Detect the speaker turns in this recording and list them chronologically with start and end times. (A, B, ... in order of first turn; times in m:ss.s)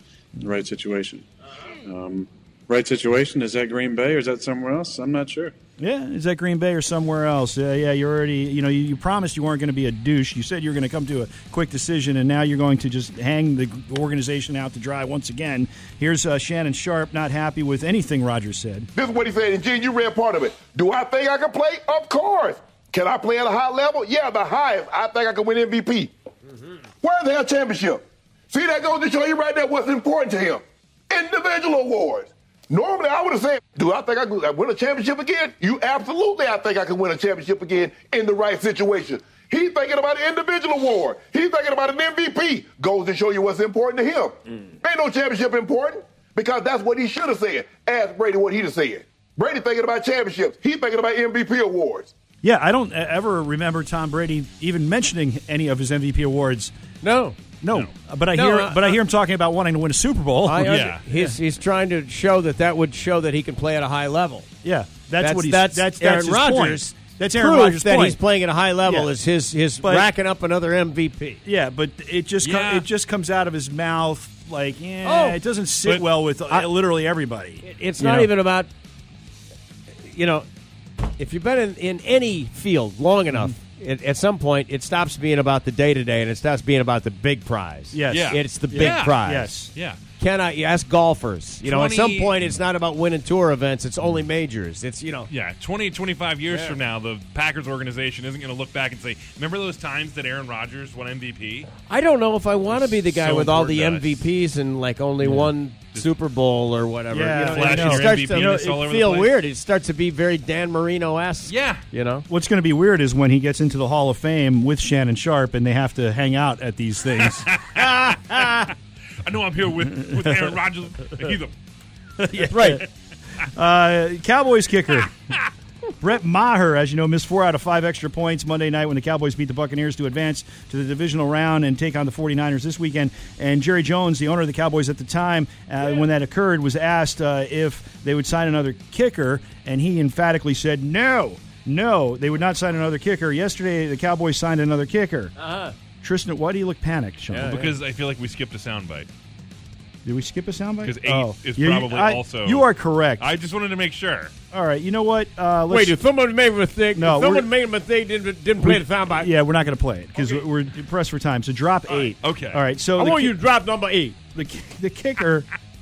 0:00.4-0:01.2 A
0:01.9-0:05.5 A
0:05.8-0:18.9 B
0:19.0-0:26.1 C
0:27.0-0:52.1 C
0:52.4-0:56.7 B
0:57.0-0:57.4 D
0:57.6-1:01.4 B
0:58.3-0:59.0 D
1:00.4-1:04.5 D
1:00.6-1:01.0 E
1:04.6-1:08.2 B
1:05.2-1:11.4 D
1:08.8-1:09.1 B
1:09.8-1:10.1 B
1:11.4-1:18.3 B
1:12.4-1:12.9 E
1:15.0-1:16.7 D
1:17.6-1:18.7 D
1:20.0-1:20.5 D
1:21.0-1:29.6 D
1:27.9-1:29.7 B
1:28.1-1:29.2 E
1:30.2-1:35.3 D
1:31.6-1:32.4 E
1:35.3-1:41.7 E
1:41.9-1:52.3 D
1:42.7-1:44.2 E
1:45.2-1:45.5 B
1:47.1-1:48.8 B
1:47.4-1:49.4 E
1:51.5-1:51.8 E
1:52.3-1:58.5 B
1:57.5-1:58.7 E
1:59.2-2:01.5 E
2:02.2-2:02.9 B
2:02.4-2:02.8 D
2:03.5-2:05.1 B
2:06.0-2:25.3 B
2:25.4-2:25.7 D
2:26.0-2:27.7 B
2:27.3-2:27.7 D
2:27.4-2:29.1 E
2:30.0-2:33.3 B
2:30.8-2:32.6 E
2:33.2-2:34.3 E
2:34.5-2:36.0 B
2:35.7-2:39.3 D
2:37.0-2:37.5 B
2:38.6-2:43.4 B
2:42.2-2:42.6 E
2:43.0-2:44.2 D
2:44.3-2:45.5 B